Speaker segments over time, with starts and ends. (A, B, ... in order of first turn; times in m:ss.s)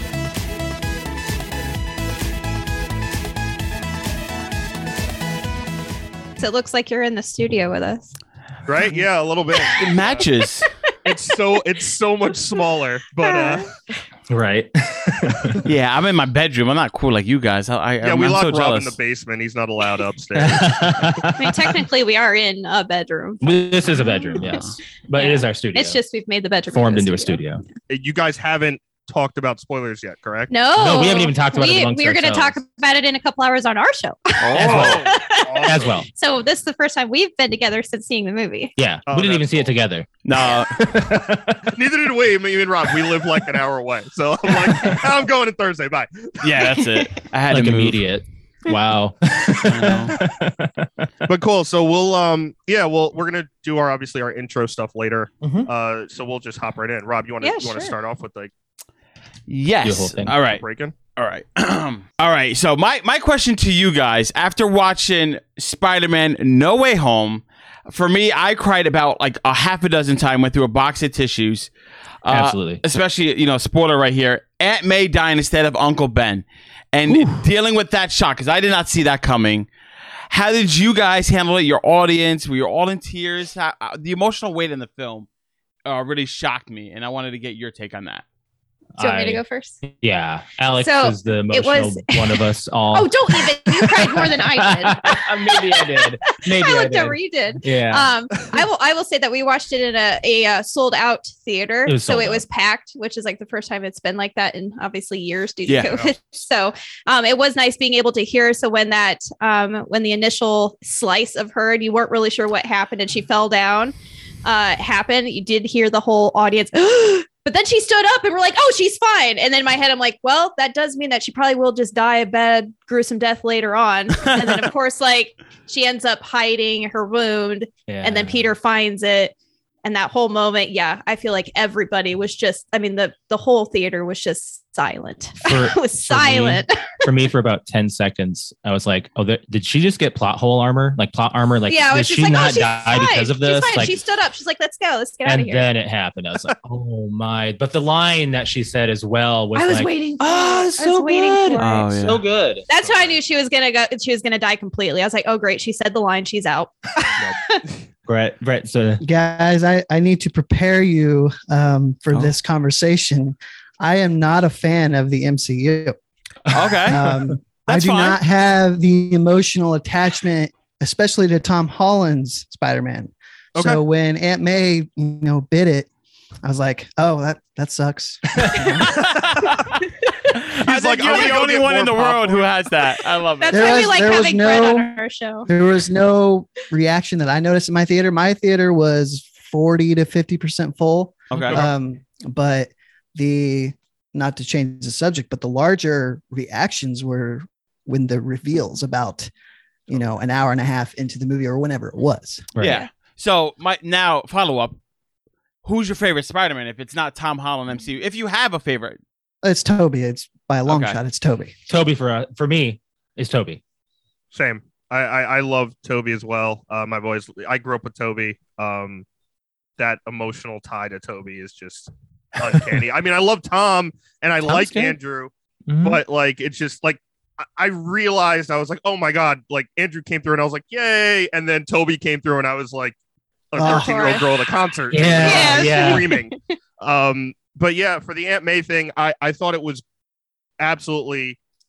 0:06.4-0:08.1 A
0:08.6-0:10.3 B
0:09.8-0:10.7 C
0:11.0-0:13.7 B
0:13.2-0:13.7 A
0:14.3-0:15.6 D
0:15.6-0:19.0 C
0:18.0-0:20.8 B
0:20.3-0:21.4 D
0:21.4-0:24.6 A
0:23.4-0:26.0 D
0:25.1-0:27.4 A
0:26.7-0:27.6 D
0:27.9-0:30.5 B
0:30.5-0:38.7 A
0:30.7-0:32.6 D
0:34.4-0:35.0 C
0:34.5-0:35.0 D
0:34.5-0:36.0 B
0:35.6-0:36.1 D
0:38.8-0:41.7 D
0:39.1-0:39.7 B
0:40.2-0:40.7 C
0:41.7-0:46.7 B
0:44.6-0:45.0 D
0:46.4-0:48.0 C
0:47.5-0:51.1 D
0:49.6-0:50.2 C
0:51.2-0:58.5 B
0:55.4-0:55.7 D
0:57.4-0:57.9 A
0:59.5-1:00.6 C
0:59.8-1:00.4 D
1:00.5-1:00.9 B
1:01.2-1:11.7 C
1:12.2-1:19.7 C
1:12.3-1:12.8 D
1:17.1-1:17.4 D
1:20.3-1:25.3 C
1:25.8-1:28.2 C
1:29.0-1:38.1 D
1:29.0-1:29.8 A
1:30.8-1:53.9 A
1:41.8-1:42.4 D
1:45.8-1:46.1 B
1:54.4-2:17.0 A
2:07.9-2:08.5 D
2:15.4-2:24.0 D
2:21.7-2:25.7 A
2:25.2-2:32.6 D
2:29.5-2:31.9 A
2:31.6-2:32.2 C
2:32.7-2:37.6 A
2:32.7-2:33.2 B
2:38.0-2:39.0 D
2:39.0-2:46.0 E
2:46.5-2:47.1 C
2:46.5-2:47.2 D
2:46.8-2:55.9 E
2:47.6-2:48.2 C
2:53.6-2:53.8 B
2:56.4-2:59.1 E
2:58.8-2:59.6 C
3:00.3-3:03.9 C
3:00.5-3:02.5 B
3:03.4-3:05.5 A
3:03.5-3:04.9 E
3:05.4-3:19.3 E
3:11.3-3:11.7 C
3:11.3-3:11.7 B
3:19.9-3:22.5 E
3:22.6-3:22.8 D
3:22.6-3:24.8 C
3:25.6-3:29.0 C
3:29.4-3:31.5 E
3:30.6-3:31.0 C
3:31.7-3:33.6 D
3:34.3-3:39.0 B
3:39.8-3:53.0 B
3:44.4-3:45.0 D
3:45.7-3:46.0 D
3:53.5-3:59.8 B
3:53.6-3:54.1 E
3:53.6-3:54.2 A
3:54.9-3:56.1 D
3:55.2-3:56.4 A
4:00.6-4:01.4 B